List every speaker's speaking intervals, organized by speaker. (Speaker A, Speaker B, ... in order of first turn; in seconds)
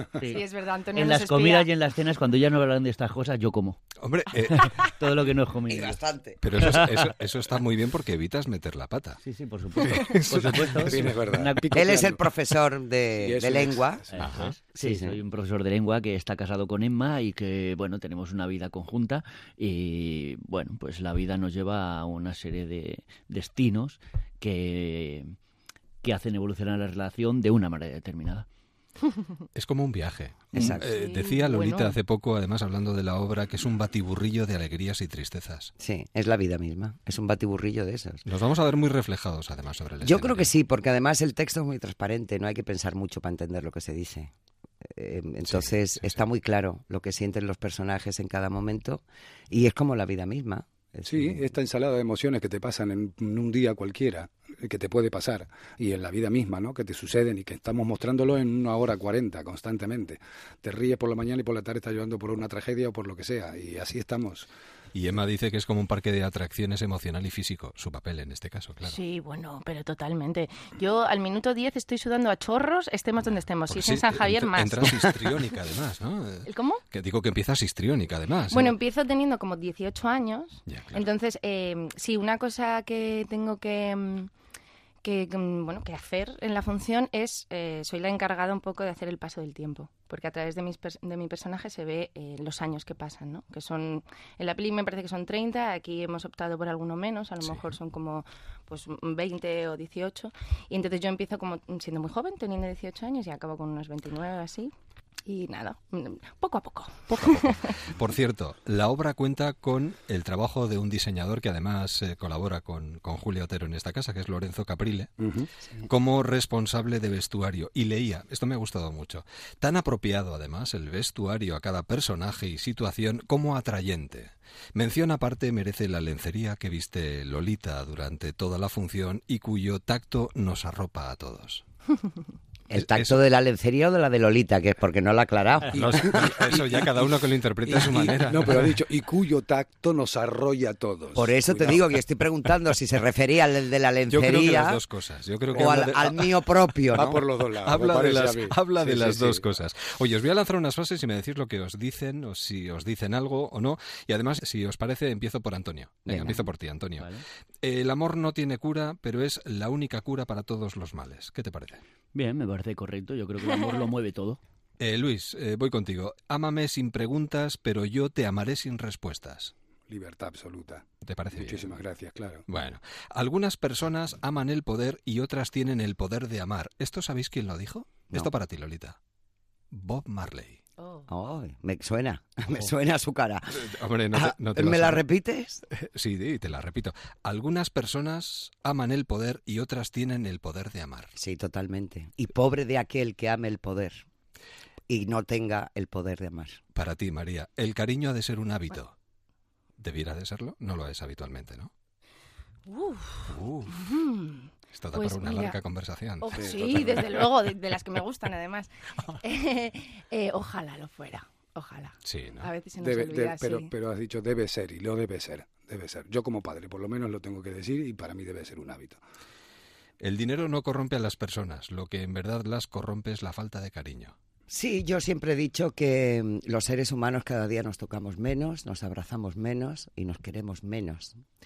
Speaker A: 0.2-1.7, 30.7-32.0, 68.8-75.4, 76.5-76.8, 78.5-84.3, 85.0-104.7, 105.3-107.8, 180.8-181.1, 202.7-205.6, 206.2-213.7
Speaker B: 0.9-3.8, 4.6-6.0, 9.2-12.2, 14.1-25.4, 26.0-28.5, 162.1-164.4
Speaker C: 4.0-4.8, 6.4-9.2, 9.8-11.1, 14.2-14.5, 29.6-35.7, 38.3-40.5, 45.5-46.2, 64.9-69.0, 73.7-78.8, 80.7-81.1, 97.4-97.7, 107.1-115.1, 115.8-131.6, 132.8-133.2, 135.8-138.8, 144.1-145.9, 147.6-157.1, 157.6-161.8, 164.8-169.5, 171.1-171.8, 172.5-179.0, 179.7-180.6, 183.5-185.0, 185.7-191.1, 196.7-198.9, 199.8-201.7, 203.3-203.9, 204.7-207.3, 212.1-212.5, 220.0-224.1
Speaker D: 5.7-6.8, 11.7-14.0, 14.8-15.2, 30.5-30.9, 35.8-38.2, 40.0-51.5, 132.7-136.3, 141.2-144.8, 145.5-147.2, 156.1-156.5, 181.1-185.6, 191.2-194.1, 194.9-196.6, 224.5-231.2
Speaker E: 10.8-12.2, 13.2-14.2, 51.0-64.5, 115.2-115.5, 135.7-136.9, 137.7-141.9, 145.5-146.2, 146.9-149.4, 169.9-172.4, 206.3-207.2, 212.8-219.0